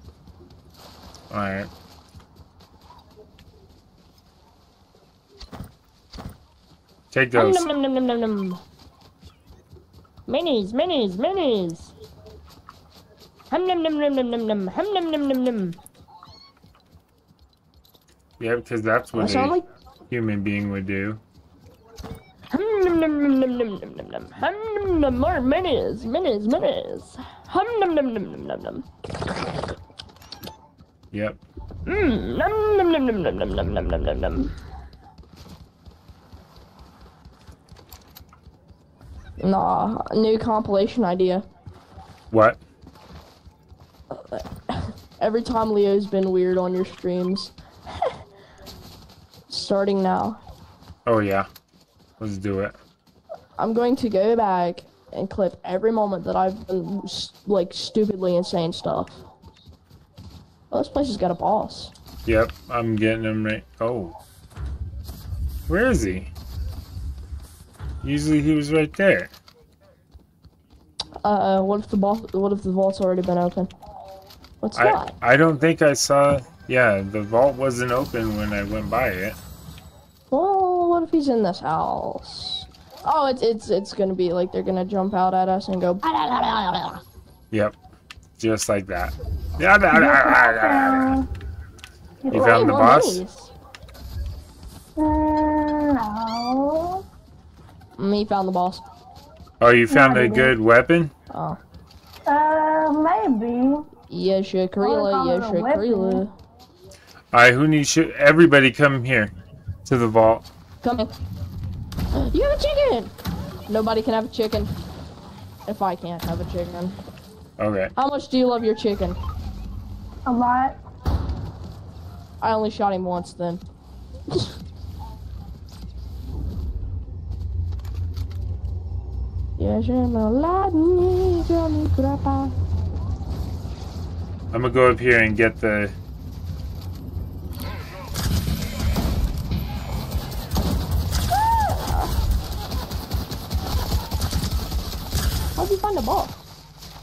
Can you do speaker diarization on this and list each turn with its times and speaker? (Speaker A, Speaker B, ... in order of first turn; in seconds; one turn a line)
Speaker A: 1.3-1.7
Speaker A: 7.1-7.7
Speaker B: 7.3-8.6
Speaker B: 10.3-11.9
Speaker B: 13.5-15.8
Speaker A: 18.4-19.6
Speaker B: 19.1-19.7
Speaker A: 20.1-21.2
Speaker B: 22.5-29.8
Speaker A: 31.1-31.4
Speaker B: 31.9-34.5
Speaker B: 39.4-41.4
Speaker A: 42.3-42.6
Speaker B: 44.1-48.2
Speaker B: 49.5-50.4
Speaker A: 51.0-51.5
Speaker A: 52.2-52.8
Speaker B: 53.6-59.1
Speaker B: 60.7-61.9
Speaker A: 62.2-64.2
Speaker A: 65.7-66.3
Speaker A: 68.0-69.3
Speaker B: 71.2-73.7
Speaker B: 74.6-75.1
Speaker A: 74.8-79.4
Speaker B: 80.3-87.0
Speaker C: 86.0-86.7
Speaker A: 88.4-91.2
Speaker C: 89.9-91.3
Speaker B: 92.3-93.5
Speaker A: 92.3-93.2
Speaker C: 95.0-97.0
Speaker B: 98.0-98.8
Speaker A: 99.6-101.1
Speaker C: 99.9-100.5
Speaker B: 101.3-101.6
Speaker C: 102.3-103.9
Speaker B: 104.1-106.3
Speaker C: 104.8-106.2
Speaker A: 107.3-109.3
Speaker A: 109.8-110.4
Speaker B: 110.8-111.1
Speaker B: 112.1-113.1
Speaker B: 113.7-114.7
Speaker B: 115.7-117.0
Speaker A: 117.6-117.9
Speaker B: 118.0-119.2
Speaker C: 120.2-120.8
Speaker B: 122.4-123.6
Speaker B: 129.6-132.5
Speaker A: 134.5-135.9
Speaker B: 141.4-142.1
Speaker B: 145.6-146.4